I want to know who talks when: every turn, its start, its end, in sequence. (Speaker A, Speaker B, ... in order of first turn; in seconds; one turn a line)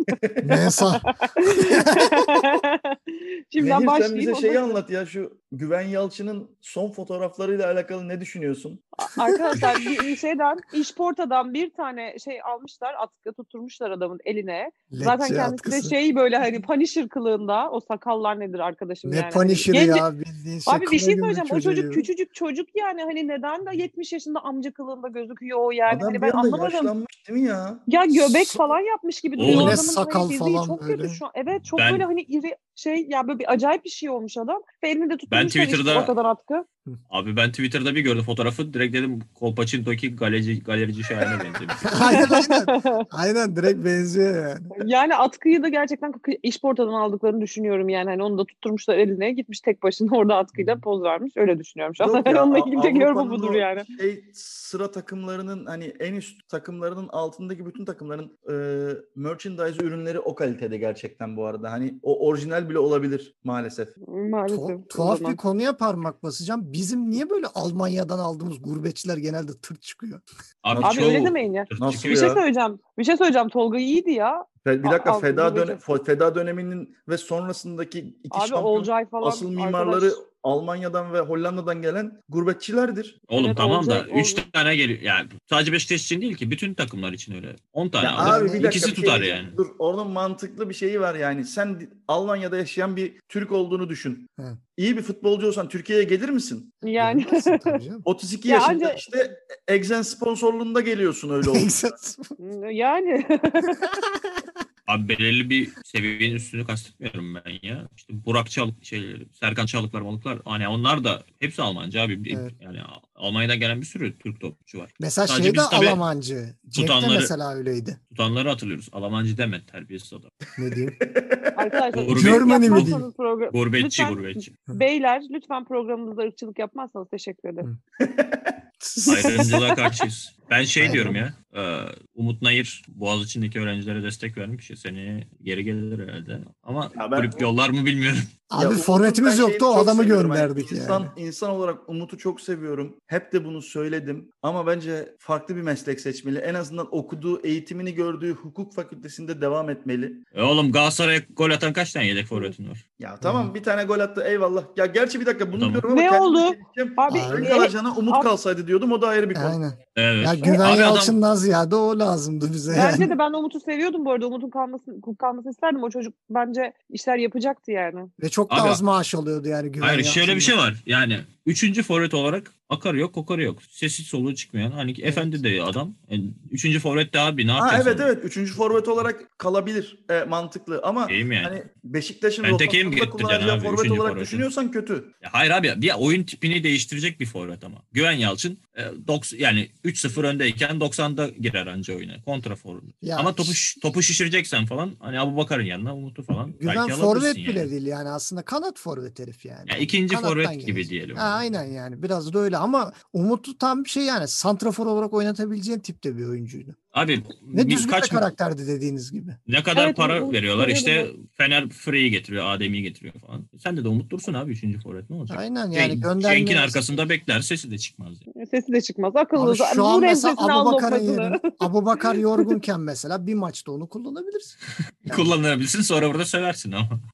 Speaker A: 0.2-0.5
Speaker B: 0.4-2.6
Speaker C: 1.2-4.8
Speaker A: 3.6-8.9
Speaker C: 9.0-20.0
Speaker B: 14.9-15.9
Speaker B: 19.0-22.1
Speaker C: 20.6-26.9
Speaker A: 25.9-27.9
Speaker C: 27.9-36.6
Speaker B: 28.1-28.6
Speaker D: 29.4-29.8
Speaker B: 29.5-31.2
Speaker D: 31.7-32.0
Speaker D: 35.3-36.1
Speaker D: 37.1-42.0
Speaker A: 41.2-41.5
Speaker B: 41.8-44.7
Speaker C: 41.9-43.0
Speaker C: 44.7-53.9
Speaker A: 52.0-63.9
Speaker C: 64.1-65.4
Speaker B: 64.5-70.2
Speaker D: 70.6-72.3
Speaker A: 70.7-71.1
Speaker C: 70.8-75.9
Speaker A: 71.8-72.4
Speaker A: 74.6-83.2
Speaker C: 78.3-80.2
Speaker D: 83.3-89.5
Speaker C: 83.3-84.4
Speaker A: 88.0-96.8
Speaker B: 88.2-88.9
Speaker C: 96.8-97.8
Speaker B: 97.0-98.0
Speaker A: 98.0-101.8
Speaker C: 98.5-99.0
Speaker B: 101.4-102.4
Speaker C: 102.4-103.8
Speaker B: 103.8-104.4
Speaker D: 104.9-116.0
Speaker B: 115.0-118.0
Speaker D: 116.7-117.3
Speaker D: 118.1-120.3
Speaker B: 120.6-121.0
Speaker A: 121.0-121.8
Speaker C: 121.5-127.7
Speaker D: 121.9-124.5
Speaker B: 122.1-123.0
Speaker A: 128.0-128.6
Speaker B: 128.8-129.5
Speaker C: 129.0-129.8
Speaker D: 129.1-138.3
Speaker B: 130.8-131.2
Speaker A: 136.9-137.5
Speaker B: 138.5-141.1
Speaker A: 138.6-150.2
Speaker D: 150.3-152.8
Speaker A: 153.0-159.6
Speaker B: 153.2-153.5
Speaker D: 155.5-155.9
Speaker C: 155.9-158.3
Speaker B: 157.1-157.5
Speaker B: 159.3-163.1
Speaker D: 159.9-161.1
Speaker C: 162.7-168.1
Speaker B: 168.2-170.6
Speaker D: 168.5-168.8
Speaker D: 169.8-178.1
Speaker B: 175.0-175.4
Speaker A: 177.6-185.1
Speaker D: 181.1-181.6
Speaker D: 182.4-184.5
Speaker D: 185.2-197.7
Speaker B: 193.0-193.6
Speaker B: 196.6-206.8
Speaker D: 199.7-201.4
Speaker D: 206.9-208.3
Speaker B: 207.5-209.4
Speaker D: 209.5-218.2
Speaker C: 209.7-211.1
Speaker B: 215.3-216.8
Speaker C: 218.4-221.5
Speaker B: 219.3-225.3
Speaker D: 225.0-226.9